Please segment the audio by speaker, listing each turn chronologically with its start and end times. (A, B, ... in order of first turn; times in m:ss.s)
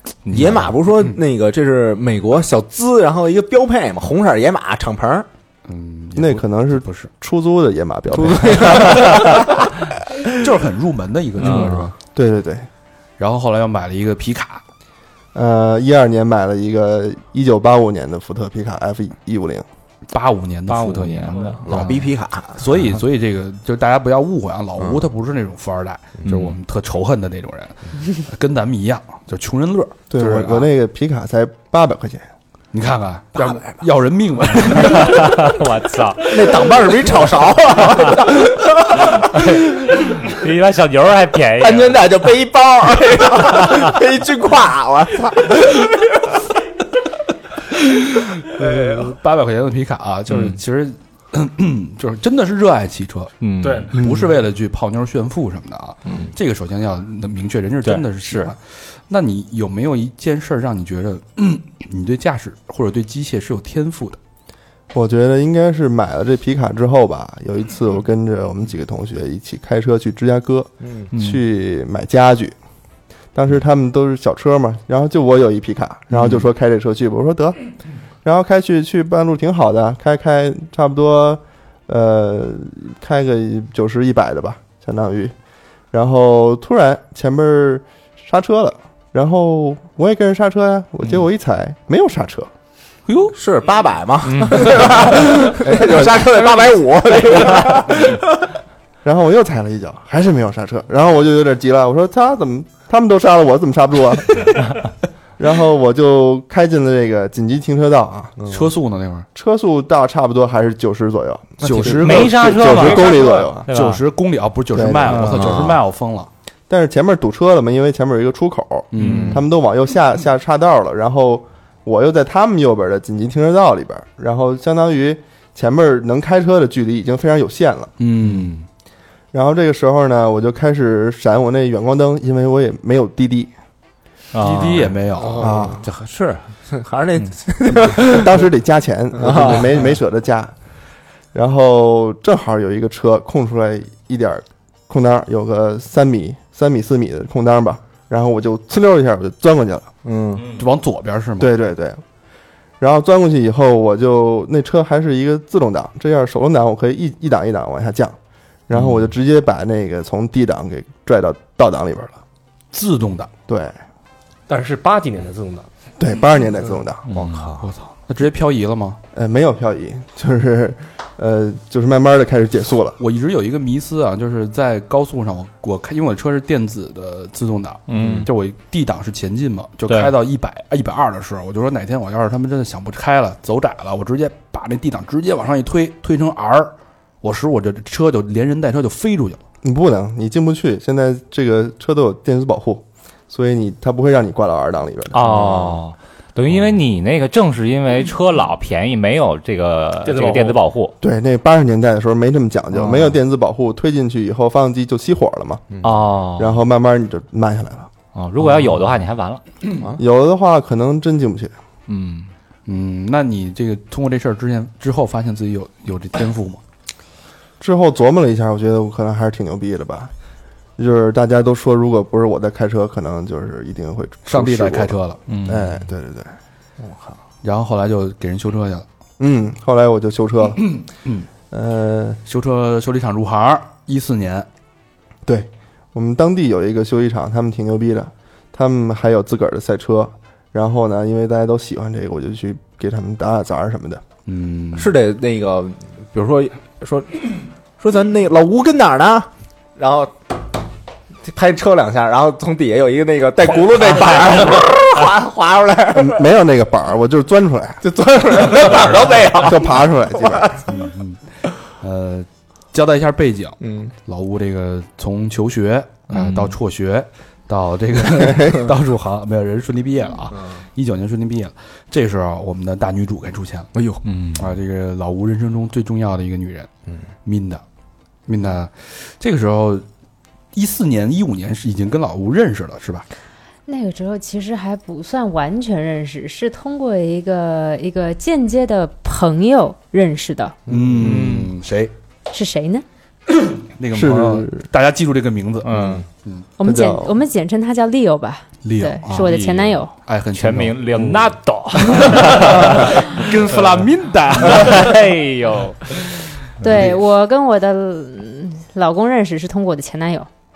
0:00.2-0:00.7 A
0:00.3-0:05.3 B
0:05.7-0:07.1 C
0:06.2-0:09.6 D
0:08.1-0:09.7 B
0:10.3-0:11.9 C
0:11.4-0:11.9 B
0:12.1-0:12.7 D
0:13.2-0:14.6 C
0:15.3-0:19.6 D
0:20.1-0:30.6 C
0:20.7-0:21.6 A
0:21.6-0:22.6 B
0:26.2-0:26.5 B
0:30.1-0:32.3 D
0:32.7-0:35.4 C
0:34.9-0:36.6 A
0:36.3-0:39.4 B
0:39.1-0:42.2 A
0:41.6-0:46.0 B
0:48.0-1:04.2 C
0:50.3-0:50.6 A
0:53.4-0:53.9 A
0:53.9-0:54.3 D
0:57.8-0:58.5 A
1:04.9-1:12.6 D
1:11.1-1:11.4 A
1:13.3-1:17.6 D
1:18.2-1:25.3 D
1:25.9-1:32.5 D
1:33.0-1:33.4 C
1:33.3-1:38.2 B
1:34.2-1:34.8 A
1:35.4-1:36.5 D
1:39.0-1:44.7 D
1:45.4-1:48.3 D
1:48.5-1:49.2 C
1:49.3-1:53.7 D
1:51.6-1:52.6 C
1:51.7-1:52.0 B
1:51.8-1:54.0 A
1:52.7-1:53.5 E
1:53.7-1:56.3 C
1:54.7-1:55.7 D
1:55.1-1:55.3 A
1:55.3-1:55.8 B
1:56.7-2:07.9 D
1:58.9-1:59.4 C
1:59.0-1:59.4 B
1:59.0-1:59.3 A
2:08.0-2:08.6 C
2:09.3-2:13.5 D
2:14.3-2:14.9 A
2:14.4-2:15.5 C
2:15.4-2:18.4 B
2:15.4-2:15.8 D
2:15.9-2:16.2 A
2:17.7-2:20.5 D
2:19.2-2:19.8 B
2:21.3-2:29.9 D
2:30.0-2:30.5 B
2:30.5-2:31.5 C
2:31.4-2:32.0 D
2:32.8-2:38.2 D
2:38.7-2:42.2 D
2:42.7-2:43.3 C
2:43.5-2:43.8 D
2:44.5-2:45.7 E
2:46.0-2:47.0 D
2:47.1-2:47.5 A
2:47.1-2:47.6 B
2:47.6-2:49.0 C
2:49.1-2:53.0 D
2:53.0-3:09.4 C
2:57.9-2:58.3 A
2:57.9-2:58.3 B
2:59.9-3:00.1 A
3:09.6-3:15.2 D
3:15.1-3:20.9 A
3:15.2-3:15.8 B
3:20.0-3:20.6 E
3:21.0-3:25.6 D
3:25.8-3:26.6 A
3:26.4-3:27.9 D
3:28.1-3:29.4 A
3:30.0-3:31.5 D
3:31.9-3:32.3 A
3:32.6-3:36.6 C
3:37.6-3:40.1 D
3:40.8-3:46.3 D
3:44.2-3:45.2 C
3:45.3-3:45.7 A
3:46.8-3:47.2 B
3:47.4-3:48.8 C
3:49.2-3:50.7 D
3:50.6-3:51.3 C
3:51.5-3:52.2 D
3:52.2-3:54.5 C
3:55.2-4:04.0 D
4:04.3-4:05.0 C
4:04.7-4:10.2 B
4:11.2-4:16.2 B
4:15.9-4:17.8 D
4:17.8-4:20.6 B
4:19.3-4:20.6 D
4:20.7-4:21.2 C
4:21.8-4:33.7 C
4:23.6-4:23.9 B
4:26.1-4:26.6 A
4:33.7-4:34.0 B
4:34.0-4:34.5 A
4:34.4-4:36.7 C
4:37.2-4:37.6 C
4:38.3-4:39.8 C
4:40.5-4:43.0 C
4:43.7-4:50.6 F
4:50.7-4:51.9 C
4:50.7-4:51.2 B
4:51.0-4:51.5 A
4:52.3-4:52.8 F
4:53.7-4:55.7 C
4:53.9-4:54.6 D
4:55.6-4:56.0 A
4:55.7-4:56.0 B
4:56.6-4:59.9 F
4:56.6-4:57.2 D
4:58.6-4:59.3 C
4:59.2-5:03.0 A
5:00.0-5:01.2 C
5:01.9-5:04.8 C
5:04.4-5:06.9 A
5:06.6-5:10.3 F